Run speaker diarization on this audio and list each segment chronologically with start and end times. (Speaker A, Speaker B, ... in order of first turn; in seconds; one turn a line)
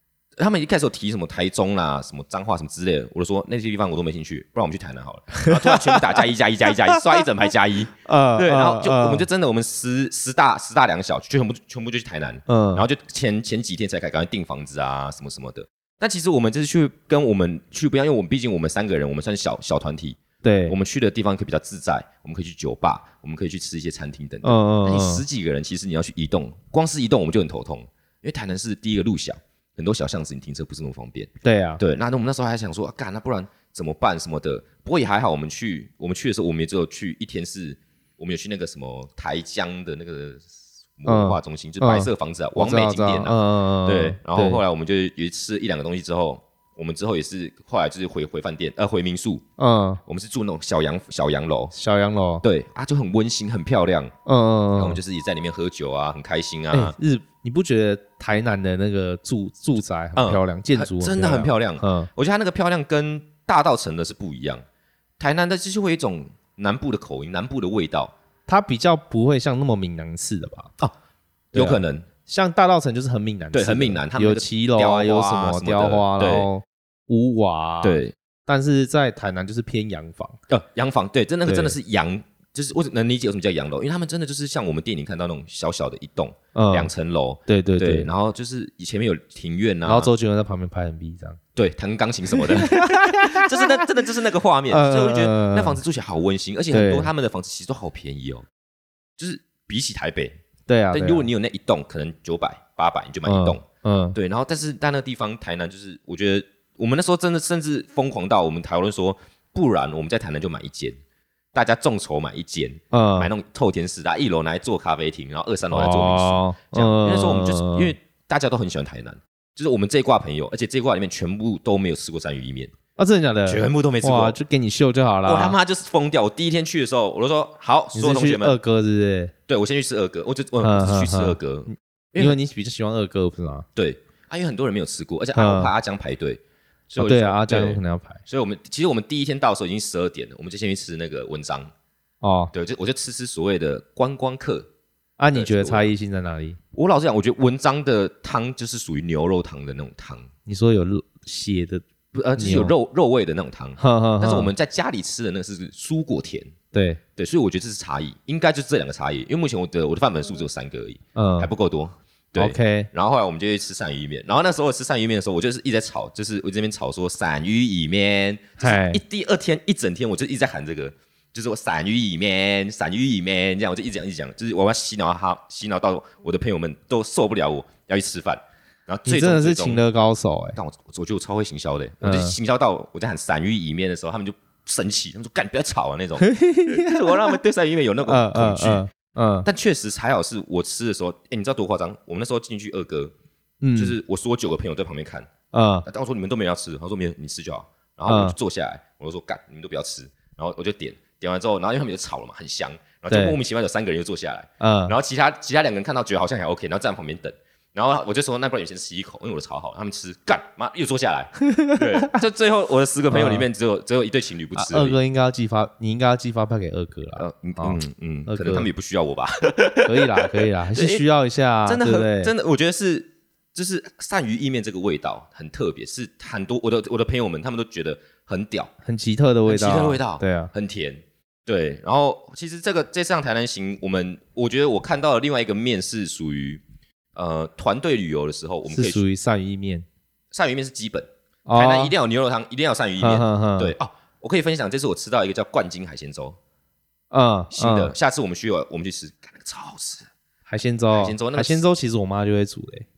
Speaker A: 0.4-49.4
Speaker B: 5.3-6.2
Speaker B: 6.9-7.2
Speaker B: 8.0-9.2
Speaker B: 12.5-12.8
Speaker B: 20.4-20.7
Speaker B: 24.4-25.2
Speaker B: 31.4-31.8
Speaker B: 41.0-44.6
Speaker B: 49.6-50.0
Speaker A: 50.0-51.7
Speaker B: 51.7-52.4
Speaker A: 52.4-54.1
Speaker B: 54.2-55.0
Speaker A: 54.8-56.9
Speaker B: 56.7-62.1
Speaker A: 60.1-64.6
Speaker A: 65.2-68.1
Speaker B: 68.5-70.7
Speaker A: 71.5-72.1
Speaker B: 71.5-80.4
Speaker A: 73.5-76.5
Speaker A: 77.8-78.1
Speaker A: 80.5-90.1
Speaker B: 81.5-81.8
Speaker B: 86.5-86.9
Speaker B: 87.5-88.1
Speaker B: 89.8-91.4
Speaker A: 91.5-98.5
Speaker B: 92.3-93.8
Speaker B: 94.7-95.8
Speaker B: 96.7-97.1
Speaker A: 99.2-100.3
Speaker B: 100.7-101.3
Speaker A: 100.9-103.6
Speaker B: 103.2-104.2
Speaker A: 104.1-111.0
Speaker A: 111.5-122.7
Speaker B: 112.9-113.3
Speaker B: 115.7-117.9
Speaker B: 123.0-125.6
Speaker A: 123.5-124.4
Speaker A: 125.2-128.6
Speaker B: 127.9-129.3
Speaker A: 129.5-132.3
Speaker B: 130.6-133.7
Speaker A: 133.8-141.7
Speaker B: 135.3-135.7
Speaker B: 136.9-138.2
Speaker B: 142.2-142.5
Speaker A: 142.5-144.7
Speaker B: 145.2-146.6
Speaker A: 145.3-145.9
Speaker A: 146.7-150.3
Speaker B: 150.4-151.8
Speaker A: 152.1-156.5
Speaker B: 152.3-152.7
Speaker B: 153.8-154.5
Speaker B: 156.7-157.0
Speaker A: 157.2-179.8
Speaker B: 161.2-161.5
Speaker B: 162.4-162.9
Speaker B: 168.6-169.0
Speaker B: 179.1-180.6
Speaker A: 180.6-188.8
Speaker B: 182.0-182.3
Speaker B: 186.2-187.4
Speaker B: 188.1-189.5
Speaker A: 189.4-193.1
Speaker B: 193.6-193.9
Speaker A: 193.8-195.3
Speaker B: 195.5-195.9
Speaker A: 195.8-215.0
Speaker B: 198.1-198.3
Speaker B: 203.1-203.4
Speaker B: 204.6-204.9
Speaker B: 211.4-212.2
Speaker B: 213.1-213.4
Speaker B: 214.5-218.7
Speaker A: 217.2-221.0
Speaker B: 219.8-222.3
Speaker A: 221.6-228.7
Speaker B: 228.8-230.5
Speaker A: 229.4-236.6
Speaker A: 237.1-239.0
Speaker B: 238.7-239.8
Speaker A: 240.3-246.4
Speaker B: 241.4-241.9
Speaker B: 243.0-243.7
Speaker B: 247.1-247.9
Speaker A: 247.5-250.1
Speaker B: 250.5-252.9
Speaker A: 250.9-251.6